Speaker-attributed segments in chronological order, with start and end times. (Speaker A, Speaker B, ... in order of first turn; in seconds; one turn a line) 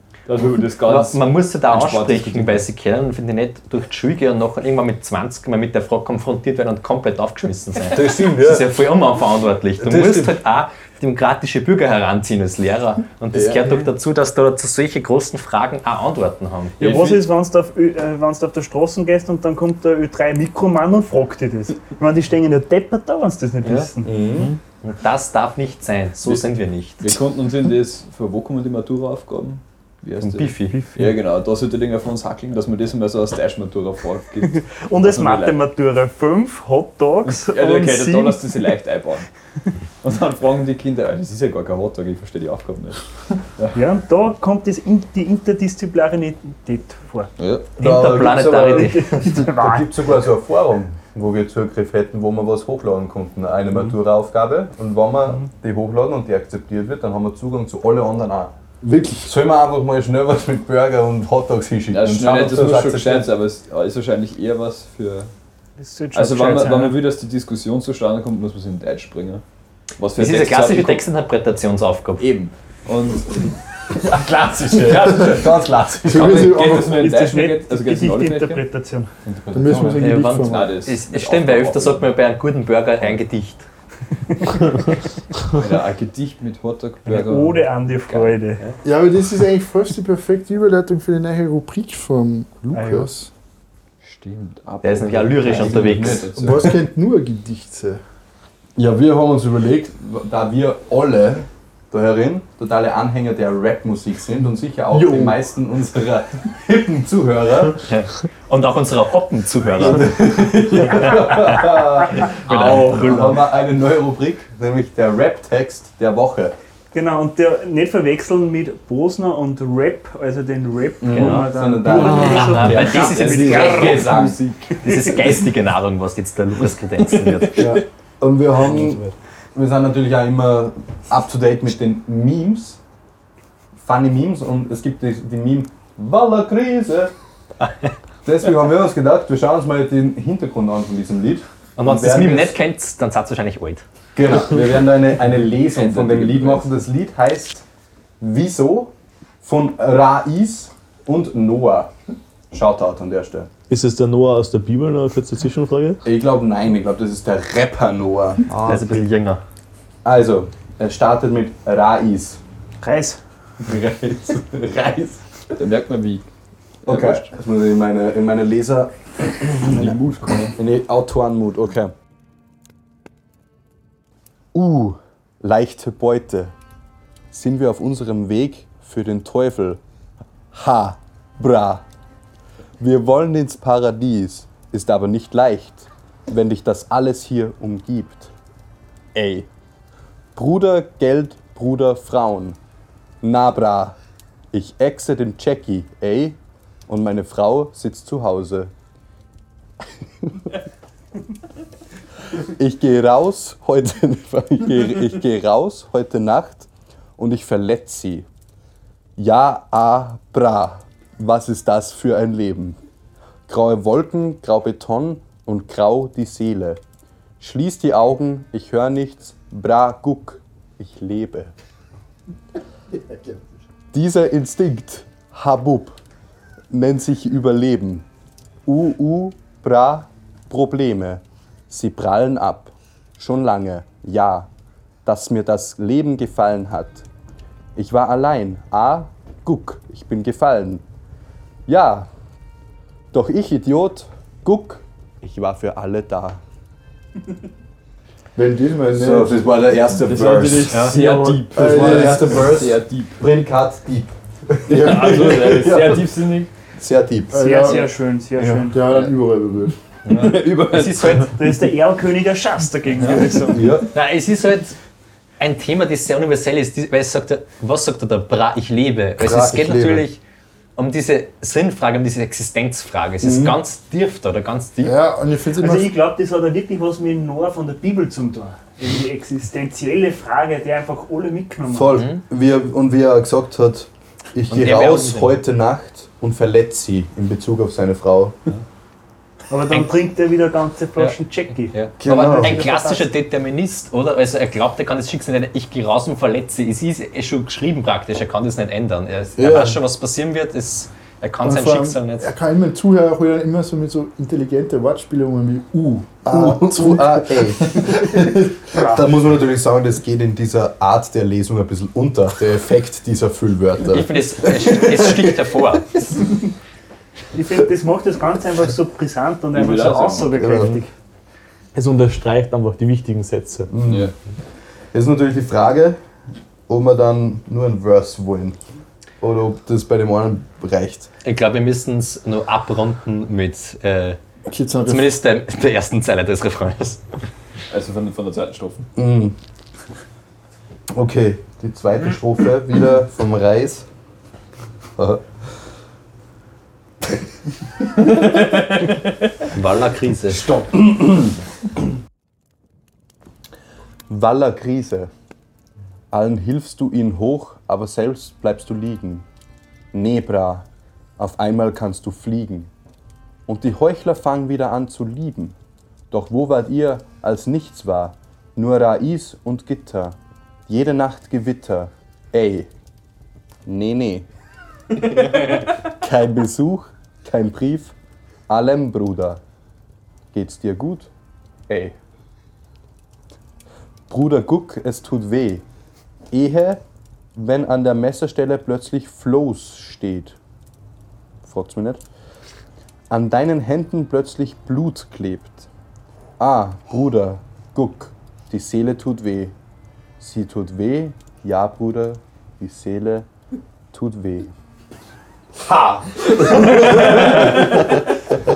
Speaker A: 0.3-2.7
Speaker B: 0.8-16.8
Speaker C: 7.9-8.8
Speaker C: 9.8-10.4
Speaker C: 13.3-13.8
Speaker A: 16.8-17.3
Speaker D: 16.8-24.3
Speaker B: 23.6-23.9
Speaker C: 24.0-24.5
Speaker B: 24.8-27.1
Speaker A: 27.0-35.6
Speaker B: 30.2-30.8
Speaker D: 34.6-38.4
Speaker A: 37.2-39.3
Speaker A: 40.0-43.0
Speaker D: 43.7-47.3
Speaker A: 47.4-47.6
Speaker B: 47.8-49.4
Speaker C: 47.8-58.5
Speaker D: 48.6-50.0
Speaker E: 58.8-59.3
Speaker C: 59.2-63.3
Speaker A: 61.9-65.3
Speaker D: 65.8-67.0
Speaker A: 66.1-69.4
Speaker A: 70.0-71.0
Speaker B: 70.2-72.2
Speaker A: 72.2-78.6
Speaker C: 74.7-76.8
Speaker E: 76.1-76.9
Speaker D: 76.7-79.1
Speaker A: 79.3-82.1
Speaker C: 79.5-80.0
Speaker E: 79.5-80.7
Speaker B: 80.0-83.7
Speaker A: 85.5-88.3
Speaker D: 87.1-88.7
Speaker E: 88.8-93.3
Speaker D: 92.7-93.1
Speaker A: 94.0-96.7
Speaker B: 94.8-96.3
Speaker C: 95.4-96.7
Speaker E: 96.3-98.0
Speaker C: 98.8-107.8
Speaker E: 104.9-105.3
Speaker B: 107.9-110.2
Speaker C: 109.8-116.5
Speaker B: 112.3-113.4
Speaker D: 116.9-124.2
Speaker C: 121.0-124.4
Speaker B: 121.1-127.8
Speaker A: 124.1-124.5
Speaker D: 124.8-125.2
Speaker C: 127.6-132.8
Speaker C: 133.8-137.1
Speaker C: 138.2-142.6
Speaker B: 141.8-143.8
Speaker C: 144.2-147.6
Speaker A: 145.7-146.7
Speaker C: 148.2-151.9
Speaker C: 152.5-153.5
Speaker F: 153.7-156.0
Speaker C: 156.1-159.0
Speaker B: 158.6-159.4
Speaker C: 160.0-162.4
Speaker D: 162.8-163.2
Speaker C: 163.6-165.2
Speaker A: 165.6-166.2
Speaker A: 166.8-167.3
Speaker C: 166.9-171.9
Speaker A: 169.7-170.5
Speaker C: 174.5-176.5
Speaker C: 177.3-179.8
Speaker C: 180.5-181.8
Speaker C: 182.8-188.3
Speaker C: 189.1-189.5
Speaker C: 190.3-192.6
Speaker C: 193.2-194.0
Speaker C: 194.5-198.7
Speaker C: 202.4-208.3
Speaker C: 209.2-212.8
Speaker C: 213.5-216.8
Speaker C: 217.4-221.5
Speaker C: 223.9-226.0
Speaker C: 226.7-228.1
Speaker C: 228.7-234.5
Speaker C: 235.1-237.1
Speaker C: 237.8-240.8
Speaker C: 241.7-242.1
Speaker C: 243.1-246.4
Speaker E: 248.3-249.4
Speaker C: 248.9-250.9
Speaker A: 249.9-253.2
Speaker B: 250.7-251.0
Speaker E: 251.5-252.4
Speaker C: 251.5-256.2
Speaker A: 254.7-256.5
Speaker C: 256.7-257.4
Speaker E: 257.3-259.8
Speaker D: 257.4-258.9
Speaker B: 260.1-261.3
Speaker A: 260.1-261.3
Speaker D: 261.3-263.8
Speaker C: 263.5-263.9
Speaker B: 263.9-264.8
Speaker B: 265.4-270.2
Speaker C: 269.2-270.1
Speaker B: 270.8-275.0
Speaker C: 273.2-273.6
Speaker E: 274.8-275.9
Speaker D: 275.5-282.0
Speaker C: 281.7-288.4
Speaker B: 281.9-282.2
Speaker B: 284.5-285.4
Speaker D: 289.5-293.1
Speaker B: 289.7-289.9
Speaker B: 291.7-302.3
Speaker C: 292.0-292.6
Speaker C: 299.4-299.8
Speaker E: 301.4-307.5
Speaker C: 306.2-315.3
Speaker B: 313.9-316.0
Speaker D: 317.3-320.9
Speaker A: 319.5-320.4
Speaker C: 320.4-320.8
Speaker F: 321.7-323.7
Speaker C: 323.7-324.1
Speaker A: 323.9-324.1
Speaker C: 324.9-326.0
Speaker C: 326.7-328.6
Speaker C: 329.2-331.1
Speaker B: 331.2-334.2
Speaker E: 334.5-335.1
Speaker B: 334.9-337.0
Speaker A: 337.7-338.8
Speaker C: 339.0-339.4
Speaker C: 340.9-343.9
Speaker C: 345.0-345.3
Speaker B: 349.5-350.5
Speaker C: 350.3-351.4
Speaker C: 354.1-355.1
Speaker C: 356.1-359.2
Speaker C: 359.9-360.7
Speaker C: 361.2-362.7
Speaker C: 363.5-365.6
Speaker C: 366.1-372.7
Speaker C: 373.6-374.3
Speaker C: 375.3-377.9
Speaker C: 378.5-379.4
Speaker C: 380.3-381.1
Speaker C: 381.7-382.0
Speaker C: 384.1-385.6
Speaker C: 386.3-386.8
Speaker C: 387.4-390.4
Speaker C: 391.4-392.0
Speaker C: 393.1-395.7
Speaker C: 396.4-399.5
Speaker C: 400.2-403.3
Speaker C: 403.9-404.5
Speaker C: 405.6-407.6
Speaker A: 406.9-407.4